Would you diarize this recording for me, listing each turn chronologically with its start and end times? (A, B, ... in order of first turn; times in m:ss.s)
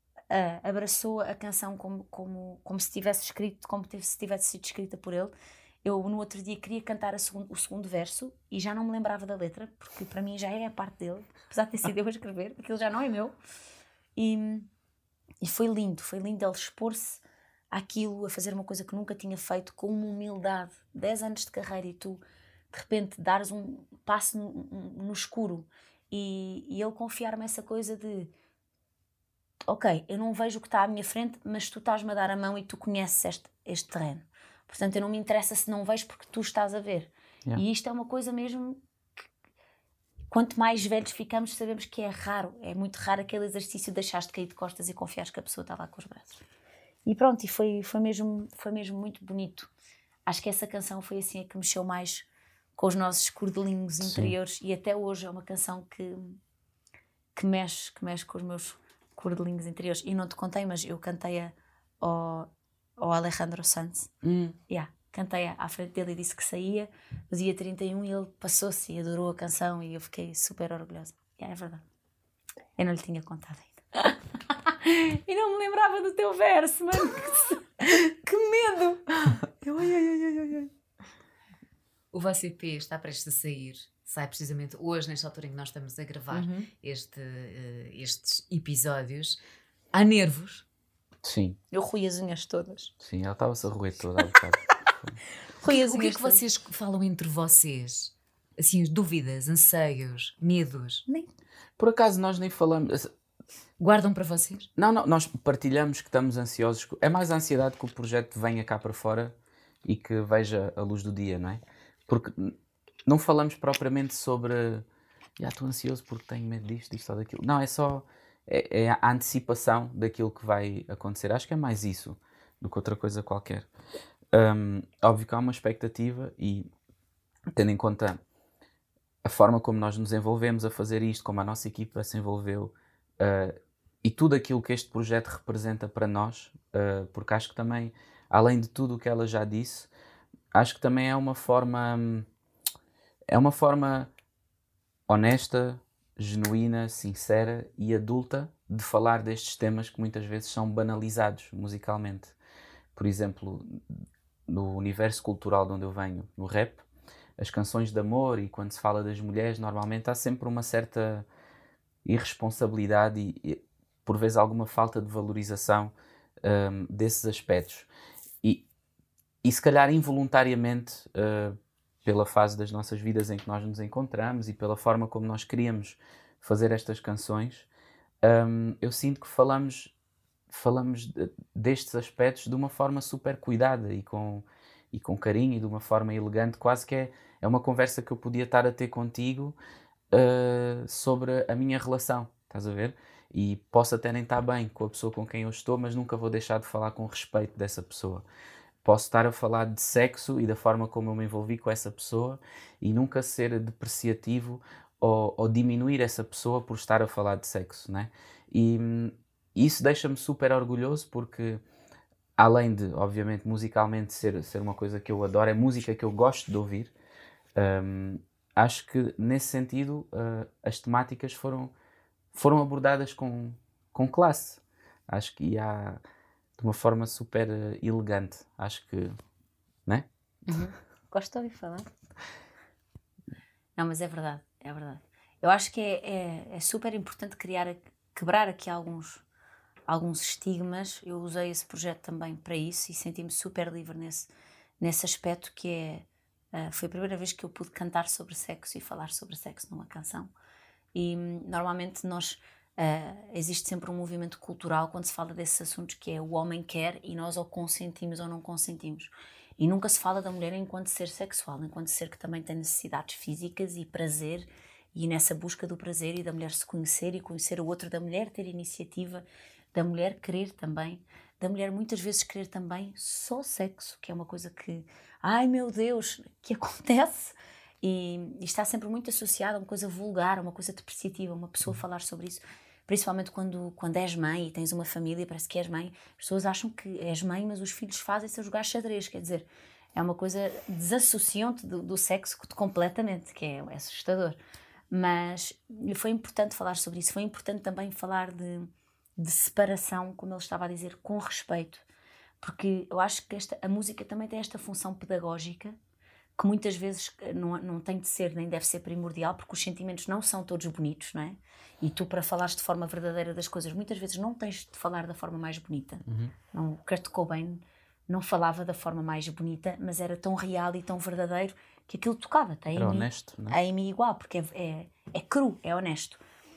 0:00.3-0:05.3 A
0:05.8-0:13.3 A
0:14.2-0:14.7 A
0:15.4-0:28.3 A
0:29.6-0:39.2 A
0:40.3-0:46.4 A
0:47.0-0:49.7 A
0:50.3-0:56.4 A
0:54.0-0:54.4 B
0:57.3-1:04.1 A
1:04.2-1:04.6 B
1:04.7-1:11.8 A
1:12.8-1:20.7 A
1:22.1-1:29.4 C
1:26.3-1:26.7 A
1:29.9-1:30.6 C
1:31.2-1:31.6 B
1:31.7-1:32.9 A
1:33.0-1:35.2 B
1:35.6-1:36.4 A
1:35.6-1:41.0 C
1:41.8-1:43.1 B
1:43.8-1:44.7 C
1:44.8-1:52.5 B
1:53.0-1:54.8 B
1:55.4-2:03.7 B
2:04.3-2:06.7 B
2:07.5-2:08.2 B
2:09.2-2:19.9 B
2:20.5-2:22.3 B
2:23.3-2:24.1 B
2:25.1-2:32.4 B
2:32.9-2:33.8 B
2:34.5-2:36.8 B
2:37.4-2:41.2 B
2:42.0-2:45.9 B
2:46.4-2:47.9 B
2:49.4-2:57.7 B
2:58.2-2:59.9 B
3:00.5-3:09.6 B
3:10.1-3:18.2 B
3:18.8-3:31.6 B
3:32.4-3:36.9 B
3:37.5-3:41.7 B
3:42.3-3:46.0 B
3:46.6-3:49.2 B
3:50.5-3:51.9 A
3:53.8-3:59.2 A
3:59.9-4:10.3 A
4:10.9-4:54.4 A
4:54.9-5:01.8 A
5:02.4-5:05.7 A
5:06.4-5:26.2 A
5:16.1-5:16.3 B
5:22.7-5:23.6 B